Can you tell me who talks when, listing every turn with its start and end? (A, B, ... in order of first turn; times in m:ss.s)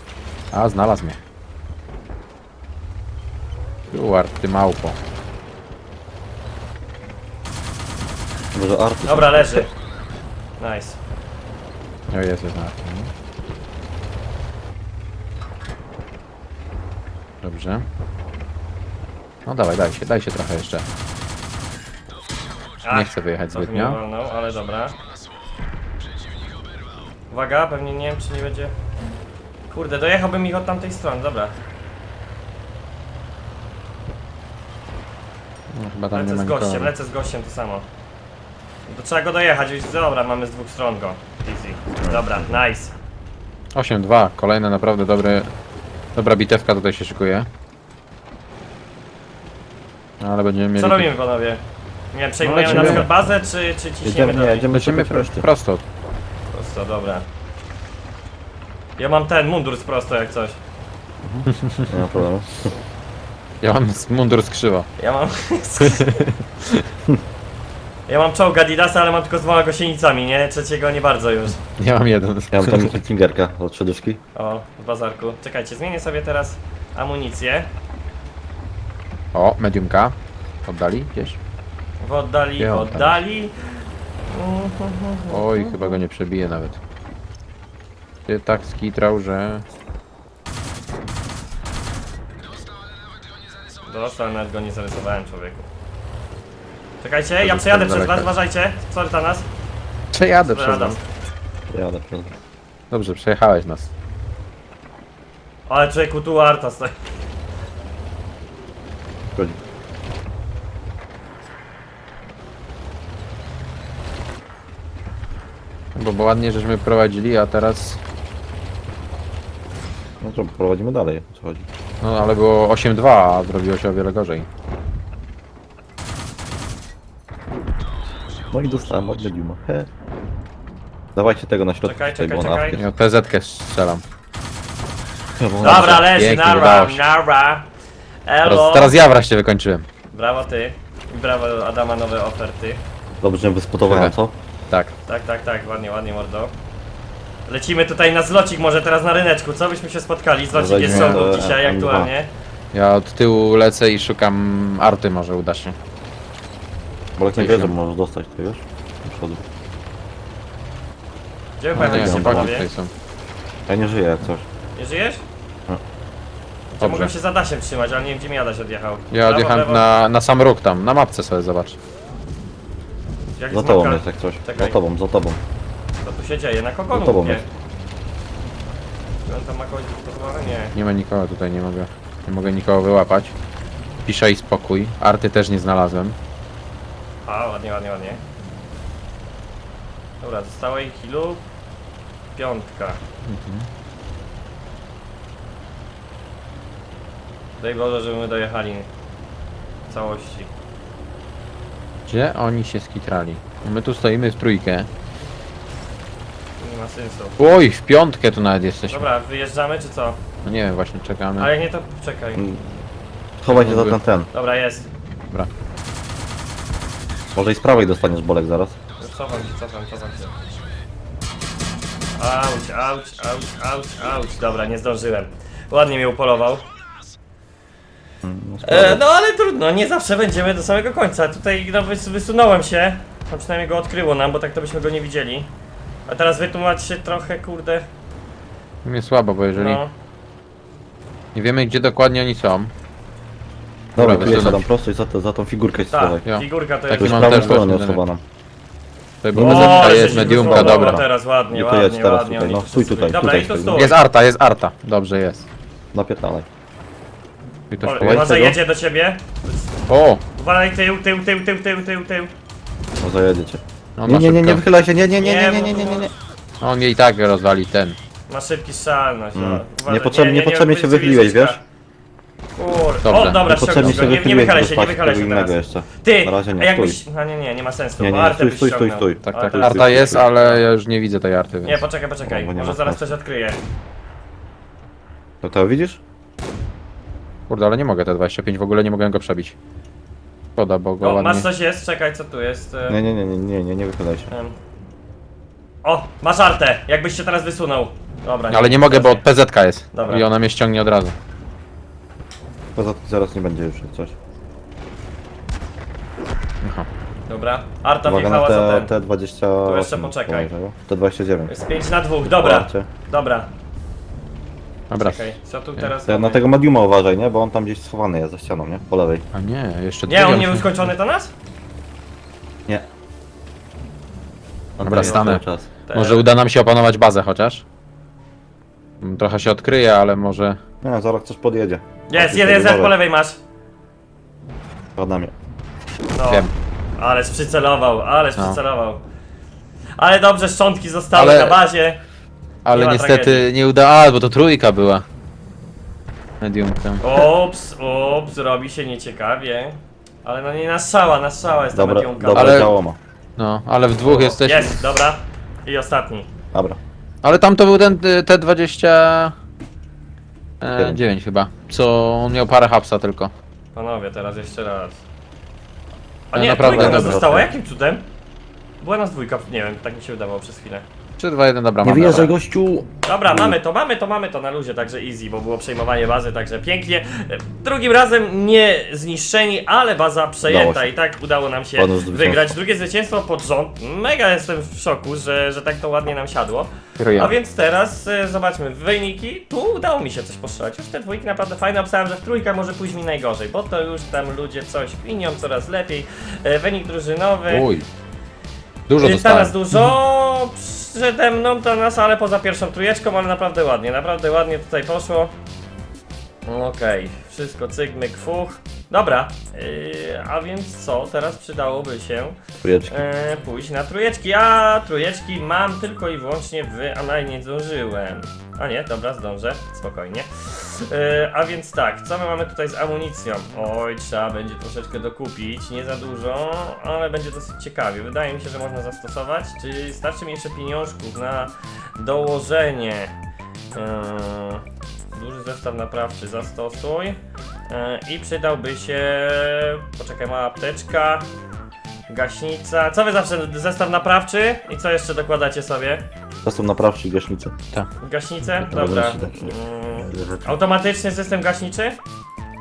0:00.5-0:01.2 A
0:03.9-0:05.0 A
0:08.5-0:09.7 B
0:09.1-0:09.7 C
0:10.6-0:11.0 C
0:12.1-0:13.1 A
0:17.4-0:17.9 A
0:19.5-0:20.8 A
0:22.8-0:25.0 C
0:22.9-0:24.0 A
0:27.3-0:28.7 C
0:29.7-0:31.6 C
0:35.7-0:36.9 A
0:36.1-0:37.9 C
0:38.9-0:42.9 C
0:42.0-0:42.6 B
0:43.7-0:45.5 A
0:46.2-0:47.5 A
0:50.2-0:51.1 A
0:50.8-0:51.6 C
0:52.1-0:54.6 C
0:52.4-0:53.1 B
0:52.5-0:53.1 A
0:54.0-0:55.5 B
0:54.7-0:55.8 A
0:56.5-0:57.3 C
0:59.0-1:00.6 C
1:01.2-1:02.7 B
1:01.5-1:01.9 A
1:03.6-1:04.9 A
1:05.0-1:06.2 C
1:05.8-1:06.9 A
1:08.1-1:11.6 C
1:11.8-1:13.0 A
1:12.5-1:14.2 B
1:14.4-1:17.7 C
1:19.3-1:21.4 A
1:22.0-1:23.5 C
1:22.6-1:23.2 A
1:24.3-1:26.0 C
1:25.3-1:26.8 A
1:28.3-1:29.6 A
1:33.8-1:35.7 C
1:37.0-1:39.5 C
1:37.4-1:38.4 A
1:40.1-1:41.0 A
1:40.4-1:41.0 C
1:41.7-1:42.4 B
1:42.9-1:43.9 A
1:45.7-1:46.9 C
1:56.0-1:58.0 A
2:00.2-2:01.7 B
2:02.0-2:04.5 A
2:08.5-2:09.9 B
2:11.2-2:12.8 B
2:11.8-2:12.8 C
2:12.8-2:14.0 A
2:15.4-2:16.1 B
2:15.6-2:17.7 C
2:15.6-2:17.0 A
2:18.3-2:19.0 C
2:18.4-2:19.9 A
2:20.1-2:22.8 C
2:23.2-2:24.4 B
2:23.8-2:24.2 A
2:25.1-2:26.5 C
2:27.5-2:32.3 C
2:30.5-2:32.1 B
2:30.9-2:31.3 A
2:32.7-2:35.8 A
2:37.2-2:39.4 B
2:37.4-2:37.7 A
2:41.6-2:42.7 C
2:41.8-2:42.6 B
2:41.8-2:42.9 A
2:43.7-2:44.5 B
2:44.8-2:45.2 C
2:46.7-2:49.9 C
2:46.8-2:47.1 A
2:49.1-2:51.8 A
2:53.4-2:54.8 C
2:53.5-2:55.4 B
2:56.0-2:57.4 C
2:56.9-2:57.4 B
2:59.3-3:00.7 C
3:00.8-3:03.3 A
3:04.1-3:06.2 A
3:07.3-3:08.2 C
3:10.2-3:11.4 C
3:12.4-3:13.0 C
3:13.2-3:13.7 A
3:17.6-3:18.9 C
3:19.9-3:20.5 C
3:22.1-3:24.9 A
3:26.6-3:27.4 C
3:27.4-3:29.1 A
3:28.9-3:30.2 C
3:30.4-3:31.5 A
3:31.4-3:32.4 C
3:32.4-3:32.8 B
3:33.4-3:34.3 B
3:33.5-3:34.0 A
3:34.3-3:34.9 C
3:37.4-3:38.8 B
3:39.0-3:40.3 C
3:42.2-3:46.6 C
3:48.2-3:49.0 B
3:48.6-3:55.5 C
3:56.1-3:57.9 C
3:58.8-3:59.8 A
3:59.6-3:59.9 C
4:01.4-4:02.7 A
4:04.0-4:06.2 B
4:04.0-4:04.6 A
4:05.9-4:07.6 C
4:06.3-4:08.0 A
4:06.9-4:08.2 B
4:09.2-4:11.0 A
4:09.3-4:13.9 B
4:09.4-4:14.0 C
4:13.8-4:15.5 A
4:15.9-4:16.5 B
4:17.7-4:18.6 A
4:17.8-4:19.7 C
4:19.9-4:20.2 A
4:20.4-4:22.3 C
4:23.0-4:26.1 B
4:24.0-4:24.6 A
4:25.2-4:26.1 C
4:26.6-4:28.0 A
4:28.3-4:31.6 C
4:29.3-4:31.6 B
4:32.6-4:40.6 C
4:33.0-4:34.2 A
4:33.5-4:37.0 B
4:38.0-4:40.3 B
4:39.2-4:41.8 A
4:41.6-4:43.6 C
4:42.2-4:43.0 B
4:45.4-4:46.0 B
4:47.5-4:49.6 A
4:50.6-4:51.5 A
4:51.0-4:53.0 C
4:52.9-4:54.3 B
4:54.3-4:54.6 C
4:55.8-4:59.2 C
4:58.5-5:01.2 A
4:59.9-5:00.3 C
5:02.8-5:04.2 B
5:07.3-5:08.9 C
5:08.0-5:11.6 B
5:09.6-5:10.5 C
5:11.5-5:13.5 C
5:12.2-5:12.9 B
5:14.9-5:15.9 A
5:15.0-5:16.4 C
5:16.1-5:19.3 B
5:19.3-5:20.8 A
5:20.1-5:21.3 C
5:24.8-5:25.7 B
5:24.8-5:27.6 A
5:24.9-5:26.3 C
5:29.0-5:30.6 A
5:30.8-5:33.0 B
5:32.1-5:33.4 C
5:35.0-5:35.3 B
5:36.1-5:39.0 C
5:40.0-5:42.0 C
5:41.1-5:41.6 A
5:42.7-5:45.0 A
5:42.7-5:43.5 C
5:46.4-5:47.2 A
5:47.0-5:52.7 C
5:51.7-5:53.0 B
5:52.3-5:52.7 A
5:53.4-5:54.9 A
5:54.0-5:56.3 C
5:56.5-5:56.8 B
5:57.2-5:59.3 A
6:00.6-6:03.3 A
6:00.8-6:01.0 B
6:03.8-6:05.0 C
6:06.3-6:08.0 C
6:06.3-6:07.2 A
6:06.6-6:07.5 B
6:08.8-6:10.9 C
6:11.2-6:12.3 A
6:11.8-6:13.6 B
6:12.0-6:12.3 C
6:13.1-6:37.7 C
6:20.5-6:20.9 B
6:21.8-6:22.6 B
6:27.0-6:27.4 A
6:37.5-6:37.9 A
6:38.9-6:40.0 A
6:39.0-6:45.3 C
6:46.5-7:13.1 C
6:52.6-6:53.1 B
7:13.7-7:21.3 C
7:22.1-7:26.0 C
7:26.4-7:27.6 B
7:28.0-7:32.0 C
7:28.5-7:30.6 B